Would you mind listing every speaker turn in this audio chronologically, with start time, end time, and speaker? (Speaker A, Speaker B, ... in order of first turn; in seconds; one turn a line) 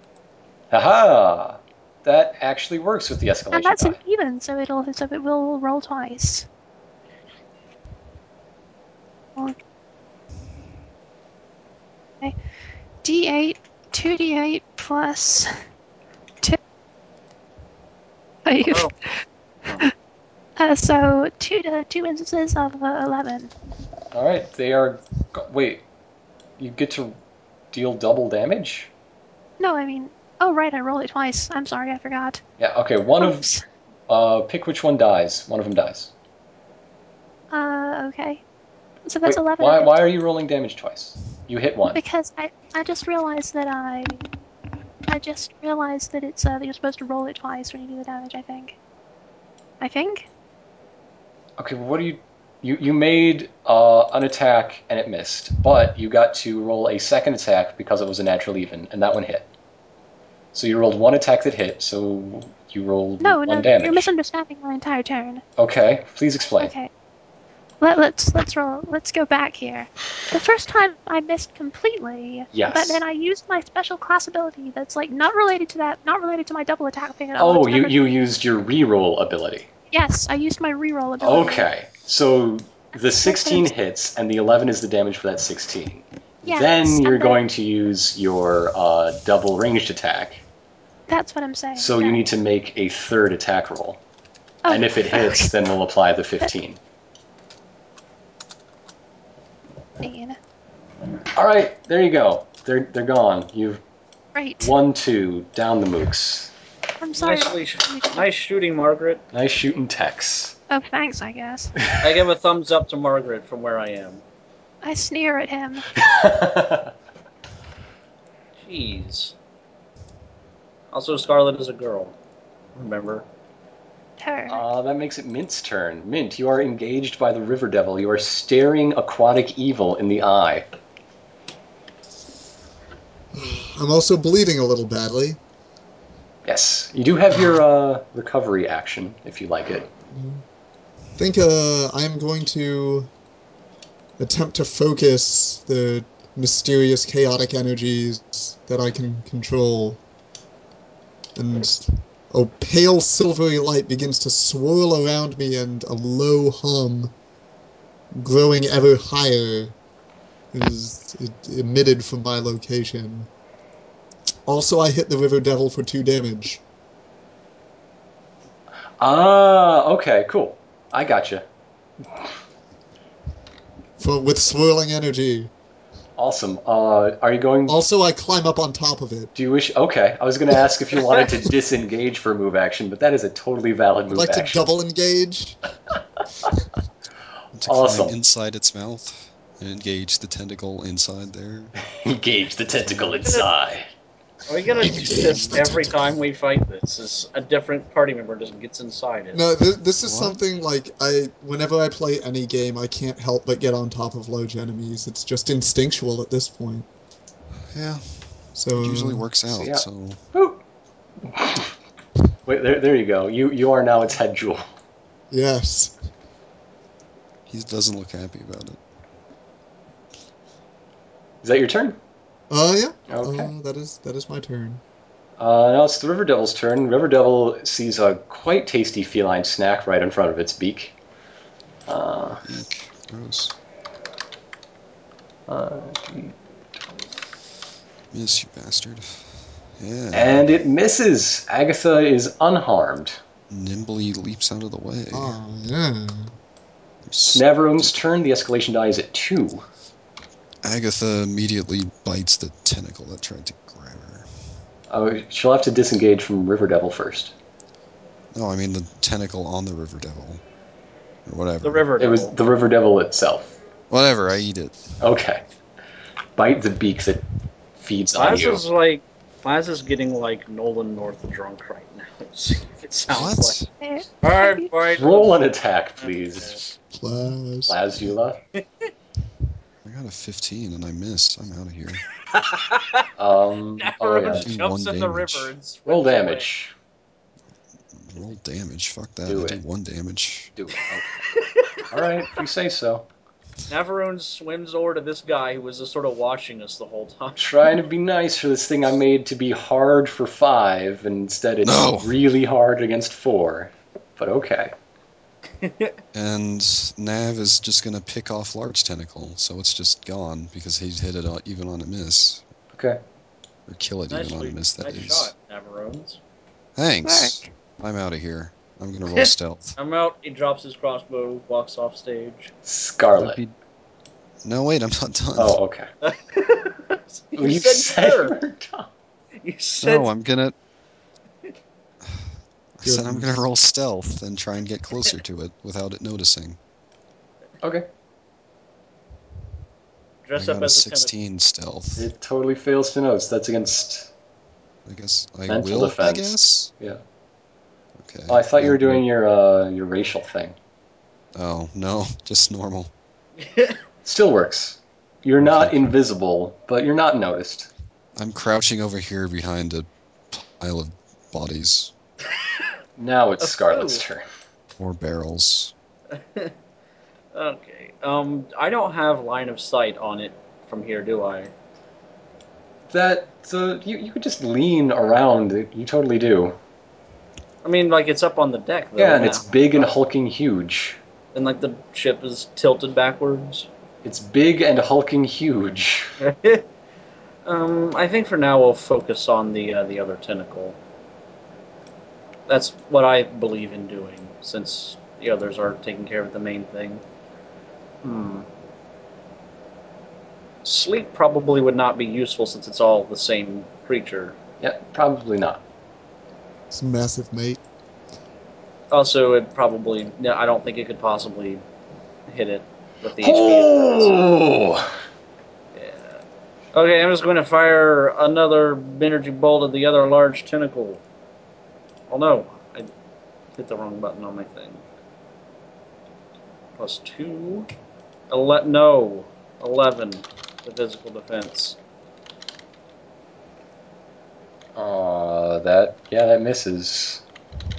Speaker A: 0.7-4.0
Speaker B: 3.5-6.5
Speaker B: 13.0-15.5
Speaker B: 18.5-19.2
Speaker C: 18.7-18.9
Speaker B: 20.6-23.5
Speaker A: 24.1-25.9
Speaker A: 26.6-27.2
Speaker A: 27.7-28.9
Speaker B: 29.6-32.4
Speaker A: 32.6-33.5
Speaker B: 33.2-33.6
Speaker A: 34.1-36.1
Speaker B: 37.5-38.4
Speaker B: 39.1-40.0
Speaker A: 39.3-42.0
Speaker B: 41.9-44.2
Speaker B: 45.1-48.8
Speaker B: 49.8-50.3
Speaker A: 51.6-59.5
Speaker A: 60.5-64.1
Speaker B: 63.2-65.4
Speaker A: 65.6-66.7
Speaker B: 66.6-66.9
Speaker B: 67.8-78.0
Speaker A: 72.5-73.0
Speaker A: 77.4-79.7
Speaker B: 79.9-81.7
Speaker A: 81.2-90.4
Speaker B: 82.9-83.7
Speaker B: 86.5-87.4
Speaker B: 91.1-92.2
Speaker A: 91.8-94.0
Speaker B: 94.7-95.5
Speaker A: 94.7-96.8
Speaker B: 100.0-100.4
Speaker A: 101.3-103.8
Speaker B: 104.3-104.7
Speaker A: 104.6-106.5
Speaker B: 107.0-108.3
Speaker C: 107.2-109.2
Speaker A: 109.3-110.6
Speaker B: 110.7-111.7
Speaker C: 112.0-114.2
Speaker B: 114.8-115.9
Speaker A: 116.0-116.9
Speaker C: 118.6-119.3
Speaker C: 120.9-122.2
Speaker C: 122.8-123.2
Speaker B: 124.2-124.6
Speaker A: 124.5-130.7
Speaker D: 133.3-135.4
Speaker A: 136.4-139.9
Speaker D: 140.1-140.4
Speaker D: 141.2-143.1
Speaker D: 144.2-150.0
Speaker D: 151.3-157.1
Speaker D: 158.2-159.8
Speaker D: 160.5-163.3
Speaker D: 164.5-166.6
Speaker A: 169.0-171.4
Speaker D: 174.0-175.5
Speaker A: 176.2-177.8
Speaker D: 177.7-179.3
Speaker A: 179.3-184.7
Speaker D: 184.1-185.6
Speaker E: 187.6-191.7
Speaker A: 187.7-188.2
Speaker A: 191.8-193.9
Speaker E: 192.9-193.1
Speaker C: 193.2-193.5
Speaker C: 194.5-199.4
Speaker E: 194.8-196.1
Speaker D: 194.9-195.6
Speaker D: 199.3-206.9
Speaker E: 200.0-200.4
Speaker E: 207.7-210.2
Speaker D: 208.6-209.3
Speaker A: 209.5-210.6
Speaker A: 211.2-211.7
Speaker A: 212.5-214.7
Speaker D: 215.3-216.0
Speaker E: 217.5-218.8
Speaker A: 221.4-222.0
Speaker D: 222.5-224.8
Speaker A: 223.1-223.5
Speaker A: 225.4-231.0
Speaker A: 231.9-232.4
Speaker E: 232.4-233.6
Speaker A: 235.5-236.4
Speaker E: 238.1-240.5
Speaker A: 240.1-243.2
Speaker E: 243.5-245.3
Speaker D: 245.1-246.3
Speaker E: 247.1-248.0
Speaker A: 247.3-249.7
Speaker E: 250.6-254.3
Speaker A: 254.9-257.3
Speaker E: 258.3-260.4
Speaker E: 261.3-261.9
Speaker C: 261.6-262.4
Speaker A: 262.0-263.6
Speaker E: 263.9-264.9
Speaker A: 265.0-265.4
Speaker A: 266.4-267.2
Speaker A: 267.8-268.6
Speaker C: 268.1-273.6
Speaker E: 273.1-273.7
Speaker B: 273.8-274.7
Speaker C: 274.2-275.4
Speaker A: 274.9-276.6
Speaker C: 276.0-276.6
Speaker D: 276.9-278.1
Speaker A: 277.7-278.4
Speaker E: 279.9-282.0
Speaker C: 282.3-283.1
Speaker A: 283.2-284.5
Speaker C: 283.8-286.5
Speaker E: 284.4-285.5
Speaker A: 285.9-286.7
Speaker E: 287.9-290.6
Speaker A: 289.3-289.6
Speaker A: 290.6-291.3
Speaker C: 291.3-292.4
Speaker A: 291.9-293.1
Speaker C: 293.7-297.4
Speaker A: 297.4-304.7
Speaker E: 301.6-302.2
Speaker C: 305.6-306.0
Speaker E: 306.1-312.4
Speaker A: 312.7-313.0
Speaker E: 313.7-315.3
Speaker C: 314.1-316.2
Speaker E: 316.8-319.8
Speaker B: 317.1-317.5
Speaker C: 319.1-322.5
Speaker A: 322.6-323.4
Speaker E: 323.1-323.5
Speaker E: 324.4-325.6
Speaker A: 325.4-325.9
Speaker C: 326.0-328.4
Speaker A: 327.4-328.9
Speaker C: 329.4-330.1
Speaker E: 329.8-330.6
Speaker E: 332.0-336.6
Speaker D: 332.8-333.5
Speaker A: 337.6-337.9
Speaker C: 340.2-341.1
Speaker E: 340.4-342.1
Speaker A: 342.0-344.1
Speaker E: 344.9-346.7
Speaker A: 345.5-347.0
Speaker E: 348.0-349.0
Speaker A: 348.3-350.6
Speaker E: 351.4-352.9
Speaker C: 353.4-353.8
Speaker A: 354.1-357.7
Speaker E: 355.4-355.8
Speaker E: 358.2-361.9
Speaker A: 363.0-364.2
Speaker C: 363.4-364.1
Speaker E: 364.8-365.7
Speaker C: 366.1-366.5
Speaker C: 367.3-371.5
Speaker A: 372.9-376.6
Speaker C: 377.6-379.9
Speaker A: 379.0-381.0
Speaker C: 381.3-383.7
Speaker A: 384.0-386.1
Speaker C: 386.2-386.7
Speaker C: 387.4-390.8
Speaker C: 392.5-397.0
Speaker C: 398.0-398.5
Speaker C: 400.6-404.4
Speaker A: 404.6-405.6
Speaker D: 406.7-407.6
Speaker C: 408.9-411.6
Speaker C: 412.3-414.1
Speaker A: 413.2-414.9
Speaker C: 415.8-416.2
Speaker C: 416.7-421.0
Speaker C: 422.1-422.9
Speaker C: 423.5-424.8
Speaker C: 426.8-427.7
Speaker C: 428.3-431.8
Speaker A: 434.8-437.2